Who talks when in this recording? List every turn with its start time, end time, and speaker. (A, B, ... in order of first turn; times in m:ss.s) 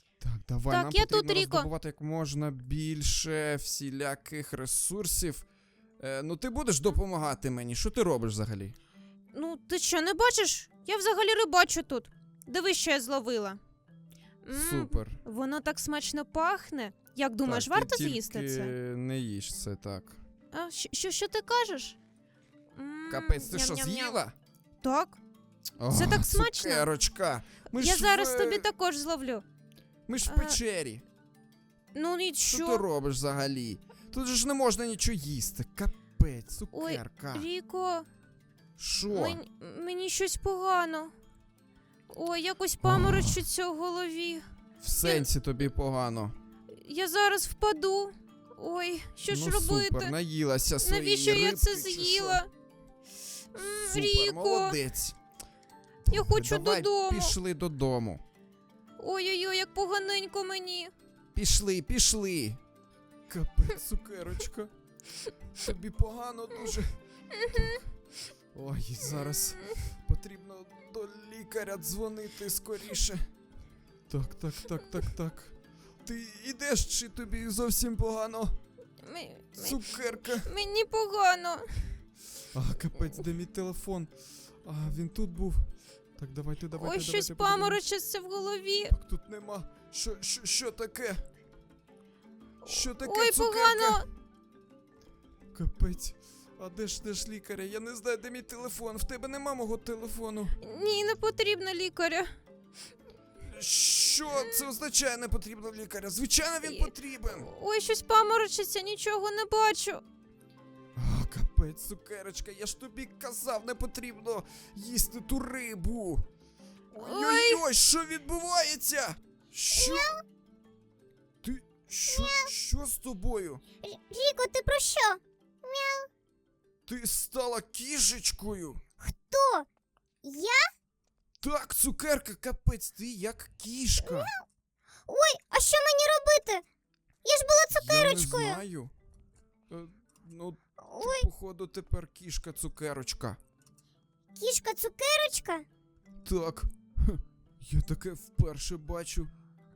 0:00.2-0:05.5 A
0:00.7-0:01.7 B
0:06.0-0:08.8 A
0:09.3-0:13.6 B
0:14.4-0:18.7 B
0:14.5-0:15.2 A
0:17.4-0:20.2 A
0:20.5-0:22.0 B
0:22.8-0:24.2 B
0:23.1-0:24.3 A
0:24.8-0:25.2 B
0:25.8-0:28.7 A
0:25.9-0:26.9 B
0:27.7-0:29.4 B
0:30.1-0:31.0 A
0:30.2-0:30.6 B
0:31.9-0:32.8 B
0:32.5-0:37.5 A
0:36.7-0:38.1 B
0:38.8-0:39.4 A
0:39.1-0:41.1 B
0:42.1-0:44.5 B
0:42.8-0:43.4 A
0:44.8-0:46.3 A
0:45.0-0:45.3 B
0:46.8-0:50.2 B
0:49.3-0:52.4 A
0:50.8-0:52.5 B
0:53.5-0:54.8 B
0:53.6-0:55.2 A
0:56.1-0:58.2 A
0:56.1-0:57.4 B
0:59.0-1:00.9 B
1:01.4-1:02.6 A
1:03.3-1:04.7 A
1:05.5-1:07.9 A
1:07.5-1:07.8 B
1:08.6-1:13.3 A
1:14.1-1:18.6 A
1:19.0-1:22.0 B
1:19.6-1:20.5 A
1:22.5-1:24.1 A
1:24.6-1:27.8 A
1:26.7-1:29.0 B
1:28.9-1:31.2 A
1:32.6-1:34.1 B
1:32.6-1:34.0 A
1:35.5-1:40.6 A
1:40.6-1:42.4 B
1:43.4-1:47.5 A
1:44.3-1:44.6 B
1:46.6-1:50.0 B
1:51.0-1:56.3 A
1:56.9-2:00.2 A
1:57.0-1:57.6 B
1:59.7-2:00.2 C
2:01.4-2:03.6 A
2:02.1-2:02.5 C
2:03.8-2:06.1 C
2:06.9-2:08.8 A
2:09.0-2:09.7 C
2:10.2-2:10.6 C
2:11.4-2:14.3 A
2:14.0-2:14.4 C
2:15.1-2:16.6 C
2:17.2-2:18.6 C
2:17.7-2:18.9 A
2:19.7-2:23.4 A
2:20.8-2:21.3 C
2:24.4-2:25.7 C
2:26.2-2:29.3 A